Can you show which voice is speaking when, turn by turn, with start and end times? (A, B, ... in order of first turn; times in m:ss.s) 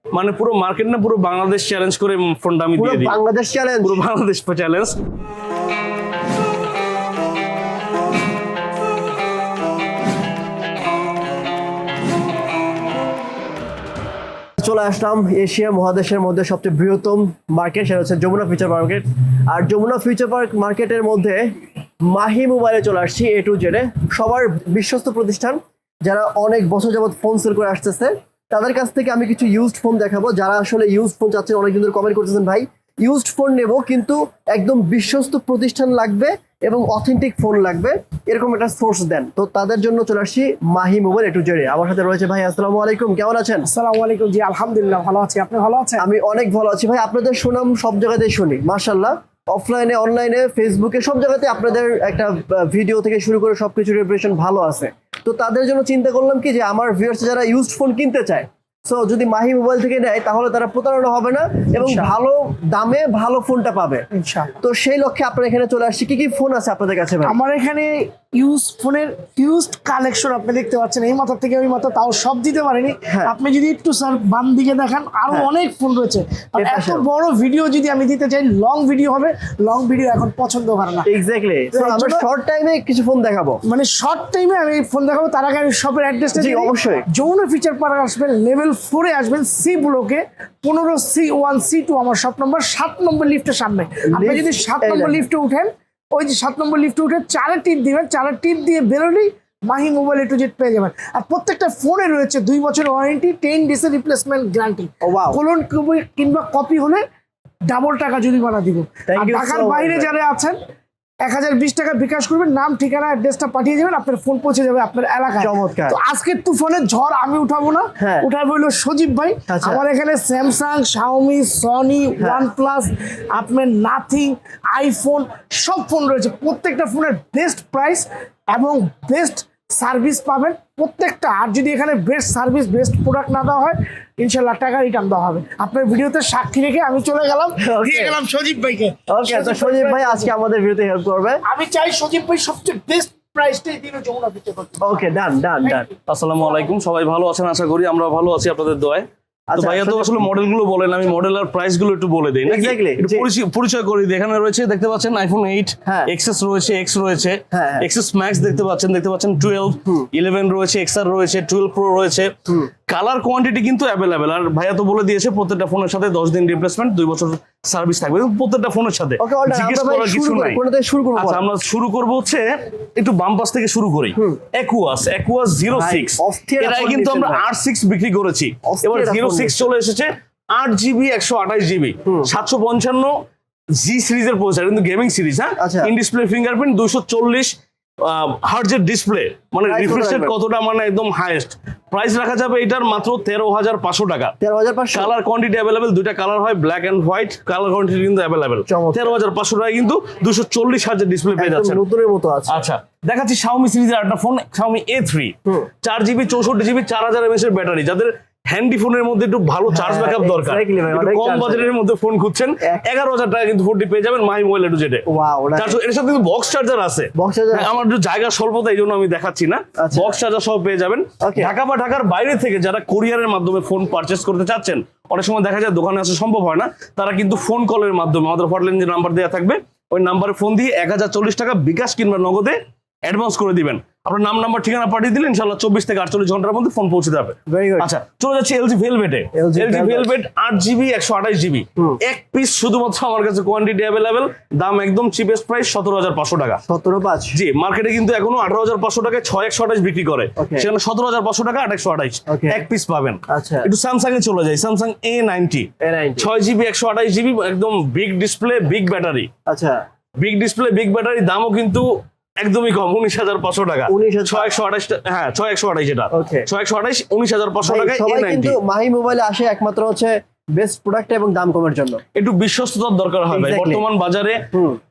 0:00.1-0:03.2 A
0:02.8-0:04.0 B
0:03.8-0:05.0 A
0:14.6-0:21.5 B
0:22.0-0:43.7 B
0:43.6-0:46.0 C
0:46.0-1:04.0 B
1:01.8-1:02.1 C
1:04.1-1:04.6 C
1:04.6-1:07.4 B
1:07.2-1:21.1 C
1:13.1-1:13.4 B
1:16.6-1:17.0 B
1:21.1-1:23.6 B
1:21.7-1:22.3 C
1:23.6-1:47.0 C
1:26.3-1:27.1 B
1:34.1-1:35.2 B
1:45.0-1:45.4 B
1:47.7-1:50.6 C
1:49.1-1:50.1 B
1:51.2-2:20.3 C
1:55.4-1:56.0 B
1:58.0-1:58.3 B
1:59.5-1:59.8 B
2:02.2-2:02.5 B
2:17.6-2:18.2 B
2:19.1-2:21.4 B
2:21.4-2:24.9 C
2:24.8-2:25.9 B
2:26.1-2:42.3 A
2:29.5-2:30.3 B
2:32.5-2:33.3 B
2:35.9-2:36.1 B
2:37.5-2:37.9 B
2:42.9-2:50.6 A
2:49.2-2:51.4 B
2:51.2-3:03.1 A
2:54.2-2:54.4 B
2:55.7-2:57.4 B
2:58.7-2:59.7 B
3:02.0-3:02.3 B
3:03.8-3:14.3 A
3:05.6-3:05.9 B
3:09.7-3:10.3 B
3:14.4-3:15.1 B
3:14.9-3:21.8 A
3:18.7-3:19.2 B
3:21.4-3:22.7 B
3:22.5-3:35.0 A
3:29.7-3:31.7 B
3:35.1-3:35.8 B
3:35.6-4:06.6 A
3:37.2-3:37.8 B
3:39.8-3:40.2 B
3:41.2-3:41.6 B
3:57.5-3:57.9 B
3:59.3-4:00.2 B
4:06.7-4:07.4 B
4:07.3-4:19.3 A
4:10.4-4:10.7 B
4:12.3-4:12.6 B
4:13.3-4:13.7 B
4:15.8-4:16.3 B
4:19.5-4:19.8 B
4:20.2-4:21.9 A
4:22.4-4:28.6 A
4:23.9-4:24.5 B
4:26.1-4:26.5 B
4:27.6-4:32.0 B
4:32.2-4:34.4 A
4:33.3-4:33.8 B
4:34.5-4:34.8 B